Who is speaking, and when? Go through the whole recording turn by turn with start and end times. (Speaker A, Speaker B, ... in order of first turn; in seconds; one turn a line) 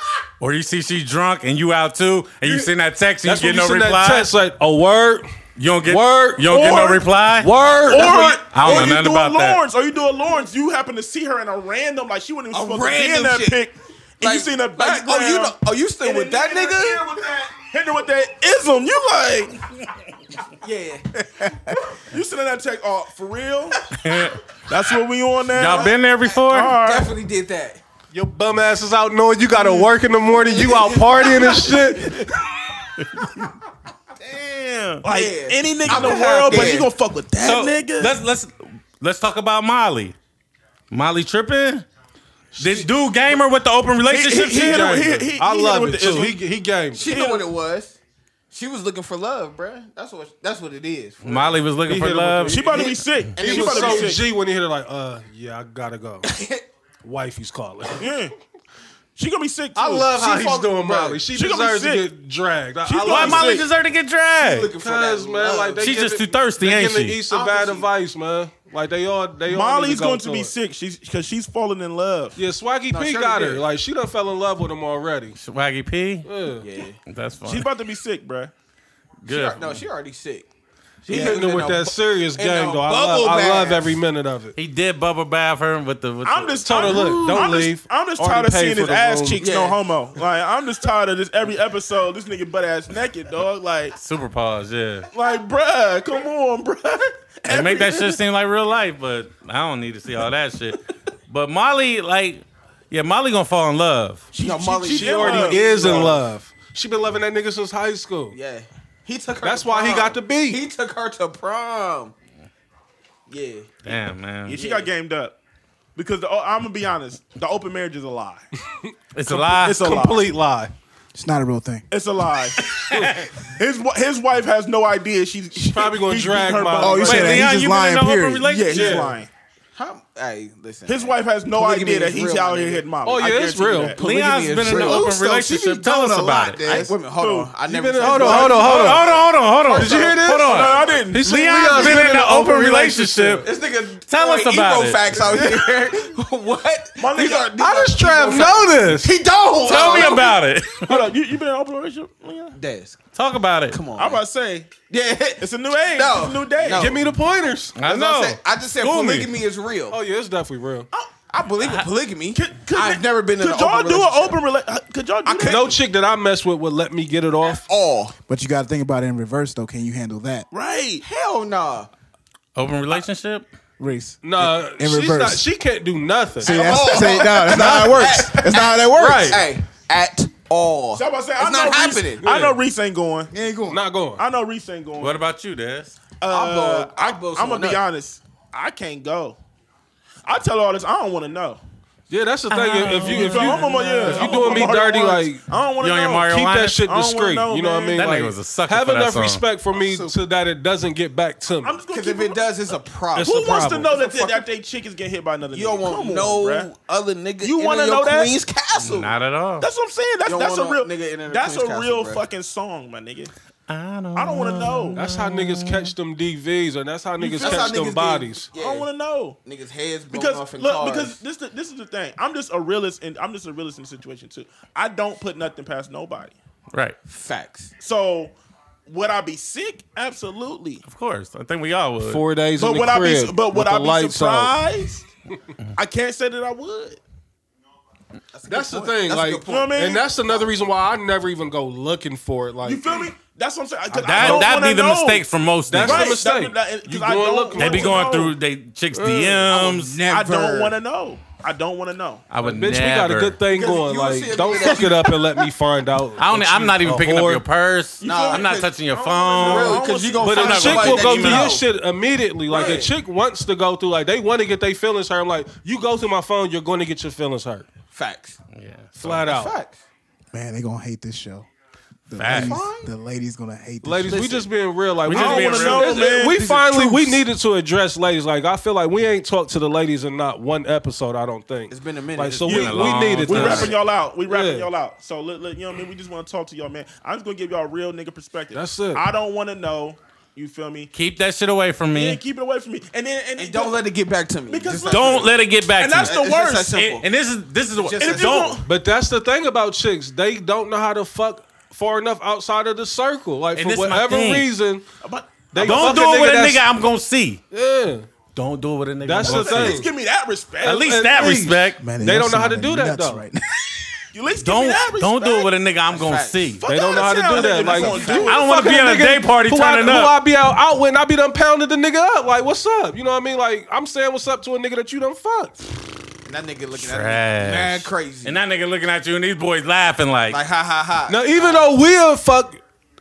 Speaker A: 0.4-4.3
Speaker B: 3.2-5.3
Speaker A: 5.6-9.6
Speaker B: 5.8-6.6
Speaker C: 6.5-7.1
Speaker B: 7.4-8.4
Speaker C: 7.8-19.6
Speaker D: 12.5-13.6
Speaker D: 14.2-17.1
Speaker D: 20.6-21.8
Speaker C: 22.1-23.8
Speaker A: 23.9-24.4
Speaker C: 24.7-27.1
Speaker A: 25.5-26.8
Speaker D: 26.7-27.8
Speaker B: 28.1-32.3
Speaker C: 29.5-29.9
Speaker D: 30.3-32.2
Speaker A: 34.3-35.0
Speaker C: 35.0-38.1
Speaker D: 35.0-36.9
Speaker A: 35.9-36.2
Speaker A: 37.4-40.1
Speaker A: 40.9-41.8
Speaker B: 42.5-42.9
Speaker A: 42.6-45.1
Speaker C: 44.1-46.4
Speaker B: 44.5-47.2
Speaker D: 46.9-48.0
Speaker C: 47.0-47.5
Speaker D: 48.5-51.6
Speaker A: 51.2-52.9
Speaker B: 51.9-56.3
Speaker C: 52.5-54.2
Speaker D: 52.8-54.2
Speaker D: 56.3-56.6
Speaker B: 57.0-58.1
Speaker C: 58.0-58.3
Speaker C: 59.1-60.1
Speaker B: 59.7-63.6
Speaker D: 60.0-61.2
Speaker C: 61.3-62.1
Speaker C: 62.8-63.7
Speaker A: 63.1-64.7
Speaker D: 64.4-66.0
Speaker B: 64.8-70.5
Speaker A: 65.8-67.2
Speaker D: 67.3-67.9
Speaker C: 69.5-72.4
Speaker B: 72.3-75.4
Speaker D: 72.9-73.6
Speaker A: 75.4-76.3
Speaker B: 76.2-76.7
Speaker D: 76.6-77.0
Speaker A: 77.1-77.7
Speaker C: 77.4-78.5
Speaker A: 79.2-79.8
Speaker D: 79.3-80.5
Speaker D: 81.0-83.9
Speaker B: 81.1-84.5
Speaker A: 84.5-87.1
Speaker C: 86.2-94.0
Speaker B: 86.6-89.4
Speaker D: 89.4-89.8
Speaker A: 94.0-95.1
Speaker C: 95.1-98.2
Speaker A: 97.5-104.3
Speaker C: 104.3-106.2
Speaker D: 104.3-106.2
Speaker B: 104.8-108.4
Speaker D: 108.3-112.1
Speaker B: 109.4-110.6
Speaker D: 113.3-113.9
Speaker A: 113.8-114.6
Speaker C: 114.5-115.3
Speaker D: 114.5-114.9
Speaker C: 115.9-118.4
Speaker B: 118.8-120.7
Speaker A: 119.1-119.8
Speaker C: 119.4-120.3
Speaker E: 121.1-121.8
Speaker C: 121.9-122.7
Speaker A: 122.6-123.3
Speaker C: 123.5-127.5
Speaker B: 125.6-127.3
Speaker E: 126.8-128.5
Speaker A: 127.0-129.1
Speaker C: 128.4-129.3
Speaker B: 128.7-129.2
Speaker D: 129.7-135.2
Speaker C: 130.9-134.0
Speaker B: 133.0-134.0
Speaker A: 134.0-136.8
Speaker E: 134.7-136.9
Speaker D: 136.6-139.2
Speaker C: 137.0-139.1
Speaker B: 137.7-139.0
Speaker A: 138.2-143.5
Speaker D: 139.7-140.0
Speaker B: 139.7-143.4
Speaker C: 139.8-142.1
Speaker D: 143.4-150.4
Speaker A: 144.1-145.5
Speaker C: 147.0-147.5
Speaker B: 147.6-149.1
Speaker A: 149.6-151.0
Speaker C: 149.8-150.2
Speaker C: 150.8-152.6
Speaker D: 152.5-153.0
Speaker A: 153.1-153.8
Speaker D: 153.7-154.2
Speaker C: 153.9-154.7
Speaker D: 154.9-157.1
Speaker C: 155.4-156.9
Speaker B: 156.7-157.8
Speaker A: 157.8-159.3
Speaker D: 157.8-160.0
Speaker B: 159.9-160.9
Speaker D: 161.3-164.4
Speaker A: 161.6-161.9
Speaker C: 162.3-165.8
Speaker D: 165.2-165.8
Speaker B: 165.4-167.6
Speaker D: 167.4-168.2
Speaker E: 168.3-170.5
Speaker C: 170.5-171.0
Speaker D: 171.0-171.9
Speaker A: 172.6-173.5
Speaker E: 173.8-175.4
Speaker B: 174.2-178.3
Speaker E: 176.4-179.5
Speaker D: 176.4-182.3
Speaker B: 178.9-179.4
Speaker C: 180.9-183.3
Speaker B: 182.2-182.6
Speaker E: 183.3-183.8
Speaker B: 183.7-184.2
Speaker C: 184.2-185.2
Speaker A: 185.0-186.0
Speaker C: 186.2-189.4
Speaker D: 186.3-187.8
Speaker C: 190.2-191.6
Speaker B: 192.1-195.4
Speaker A: 192.5-194.7
Speaker C: 193.0-198.3
Speaker A: 195.8-196.8
Speaker B: 196.3-201.8
Speaker A: 197.9-199.4
Speaker C: 201.6-202.6
Speaker D: 201.9-204.4
Speaker B: 203.1-203.9
Speaker C: 203.2-206.7
Speaker D: 205.5-209.1
Speaker C: 207.4-208.3
Speaker A: 208.8-209.7
Speaker C: 209.6-213.3
Speaker D: 210.2-212.2
Speaker A: 213.7-215.9
Speaker C: 214.1-215.0
Speaker B: 214.9-218.5
Speaker C: 217.2-217.7
Speaker D: 217.3-218.9
Speaker C: 218.5-219.4
Speaker D: 219.4-221.2
Speaker C: 220.1-226.3
Speaker A: 226.7-227.0
Speaker D: 227.1-227.7
Speaker C: 227.8-228.3
Speaker C: 228.9-230.8
Speaker A: 230.8-232.2
Speaker B: 232.0-234.6
Speaker C: 232.6-235.1
Speaker C: 235.8-237.0
Speaker D: 238.3-240.5
Speaker B: 238.5-242.8
Speaker C: 239.5-240.0
Speaker C: 242.6-248.3
Speaker B: 244.0-244.5
Speaker A: 244.0-246.2
Speaker B: 245.7-248.2
Speaker A: 247.6-250.0
Speaker B: 248.9-249.5
Speaker D: 249.4-250.8
Speaker C: 250.1-252.2
Speaker A: 252.3-253.4
Speaker B: 252.4-257.4
Speaker D: 253.5-255.2
Speaker A: 256.2-261.6
Speaker C: 258.0-261.0
Speaker D: 258.0-258.8
Speaker D: 259.4-261.6
Speaker B: 260.2-267.6
Speaker D: 262.5-262.9
Speaker D: 267.9-268.4
Speaker A: 268.5-269.2
Speaker B: 268.9-269.5
Speaker D: 269.2-269.8
Speaker E: 270.3-271.5
Speaker E: 272.1-274.4
Speaker A: 272.2-272.6
Speaker D: 272.3-272.9
Speaker B: 273.8-283.7
Speaker D: 274.1-274.4
Speaker A: 275.0-276.1
Speaker C: 275.1-277.2
Speaker D: 281.7-283.7
Speaker A: 282.4-283.7
Speaker C: 282.4-290.9
Speaker B: 284.2-284.7
Speaker B: 288.5-289.0
Speaker A: 290.9-292.2
Speaker C: 291.9-293.8
Speaker D: 293.4-295.3
Speaker C: 294.5-296.8
Speaker A: 294.9-296.2
Speaker D: 296.0-297.1
Speaker A: 296.7-298.6
Speaker D: 297.8-298.6
Speaker C: 298.0-298.7
Speaker B: 298.6-304.9
Speaker A: 303.5-304.5
Speaker C: 305.0-306.3
Speaker B: 305.5-306.6
Speaker A: 305.6-307.4
Speaker B: 307.5-308.1
Speaker A: 308.3-309.9
Speaker B: 309.0-309.9
Speaker C: 309.2-310.9
Speaker A: 310.6-311.8
Speaker B: 310.6-313.2
Speaker E: 311.8-314.0
Speaker C: 314.1-315.5
Speaker A: 314.4-316.6
Speaker D: 315.9-316.7
Speaker C: 316.6-318.6
Speaker B: 316.7-325.6
Speaker D: 317.3-318.2
Speaker A: 318.2-320.1
Speaker D: 326.2-328.4
Speaker A: 326.7-330.4
Speaker D: 330.3-331.7
Speaker B: 331.1-332.6